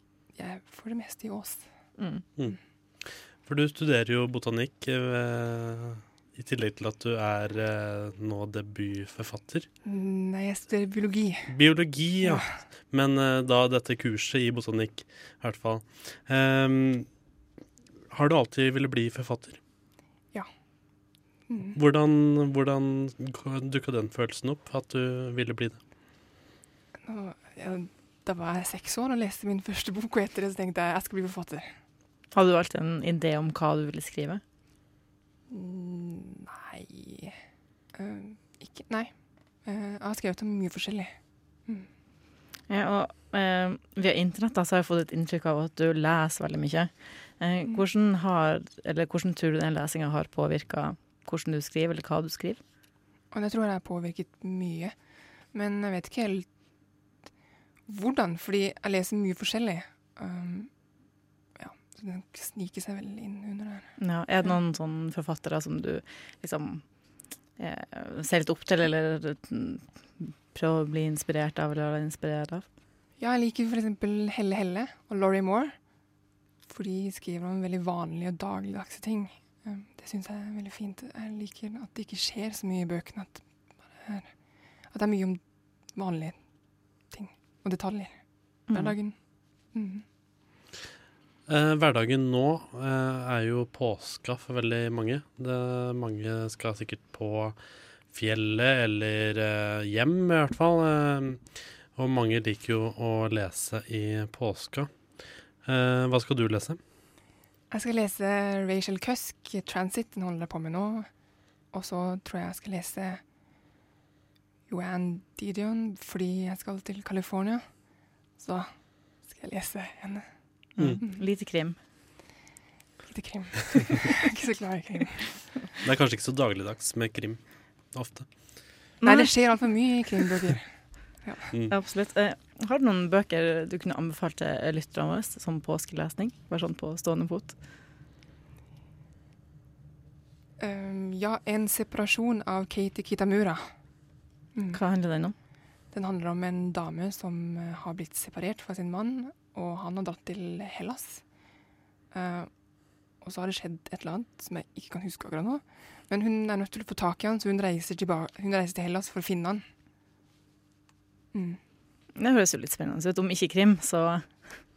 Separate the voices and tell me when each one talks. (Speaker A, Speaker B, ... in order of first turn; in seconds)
Speaker A: 0.3-1.7, 9.8-11.5, 21.5-21.8, 27.1-31.7, 35.5-37.4, 38.0-39.1, 39.6-41.2, 53.3-55.0, 55.5-56.5, 57.9-60.7, 61.6-64.5, 73.2-75.8, 76.7-83.4, 84.0-84.3, 84.9-85.4, 85.9-86.4, 87.1-89.2, 89.7-90.0, 107.7-111.1, 111.7-113.2, 114.7-117.7, 118.4-120.3, 123.1-125.5, 129.0-131.5, 140.6-143.7, 144.6-144.8, 145.9-151.2, 152.1-152.5, 153.2-159.6, 161.3-161.6
Speaker B: 2.0-2.2, 32.3-34.4, 42.7-52.6, 64.0-66.8, 67.6-72.7, 88.7-89.0, 120.8-121.8, 129.0-129.4, 131.7-137.6, 144.7-145.3, 162.2-164.5
Speaker C: 2.4-9.7, 11.5-17.1, 18.1-19.6, 21.8-25.8, 91.5-97.6, 98.1-105.0, 105.6-106.8, 125.8-128.6